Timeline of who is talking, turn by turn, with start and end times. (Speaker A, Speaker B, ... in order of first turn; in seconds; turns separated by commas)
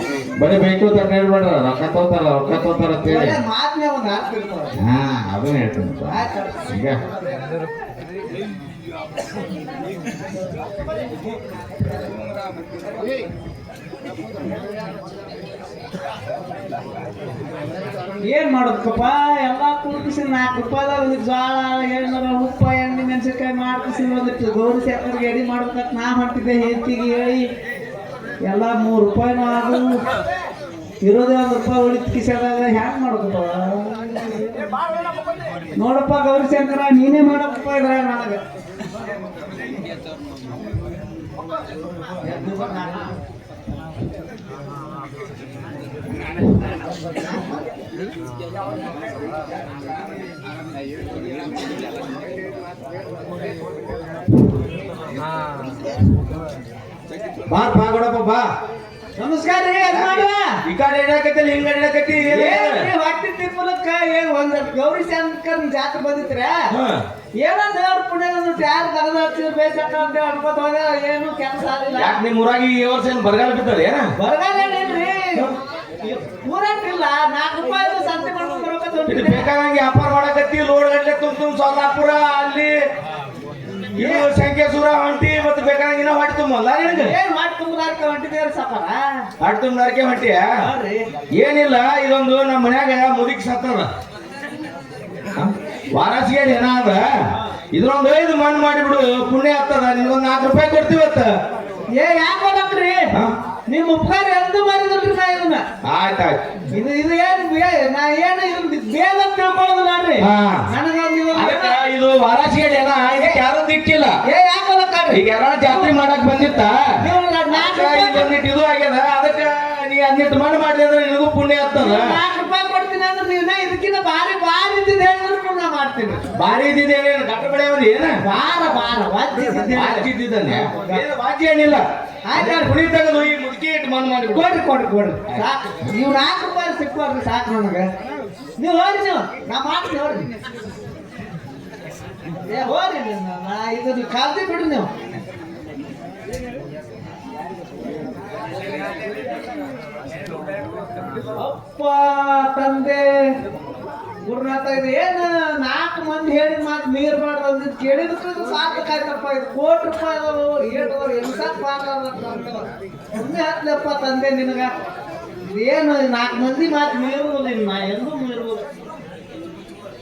Speaker A: 0.4-3.4, Speaker B: 3.0-4.8, Speaker A: 4.8-7.0, Speaker B: 6.1-6.9, Speaker B: 18.2-27.4, Speaker B: 28.4-30.0, Speaker B: 31.0-34.6, Speaker B: 35.8-38.4, Speaker B: 42.2-43.1, Speaker C: 57.5-58.5, Speaker B: 59.2-60.4, Speaker C: 59.9-62.9, Speaker B: 62.3-66.6, Speaker C: 66.7-67.0, Speaker B: 67.4-72.2, Speaker C: 72.0-74.1, Speaker B: 74.2-75.5, Speaker B: 76.0-79.5, Speaker C: 79.1-82.8, Speaker B: 84.0-84.3, Speaker C: 84.0-87.1, Speaker B: 86.9-89.0, Speaker C: 89.4-90.4, Speaker B: 90.6-91.0, Speaker C: 91.3-93.9, Speaker C: 95.4-97.1, Speaker C: 97.7-101.3, Speaker B: 101.9-103.1, Speaker B: 103.7-105.6, Speaker C: 105.8-106.4, Speaker B: 106.7-111.8, Speaker C: 110.2-110.6, Speaker C: 111.3-114.2, Speaker B: 114.2-115.9, Speaker C: 115.1-116.8, Speaker B: 117.0-118.3, Speaker C: 117.5-122.2, Speaker B: 121.8-126.2, Speaker C: 126.3-128.2, Speaker B: 128.2-131.0, Speaker C: 129.7-134.6, Speaker B: 132.3-132.7, Speaker B: 134.3-137.9, Speaker B: 138.6-140.3, Speaker B: 142.5-144.9, Speaker B: 151.3-153.2, Speaker B: 154.3-164.7, Speaker B: 165.5-168.6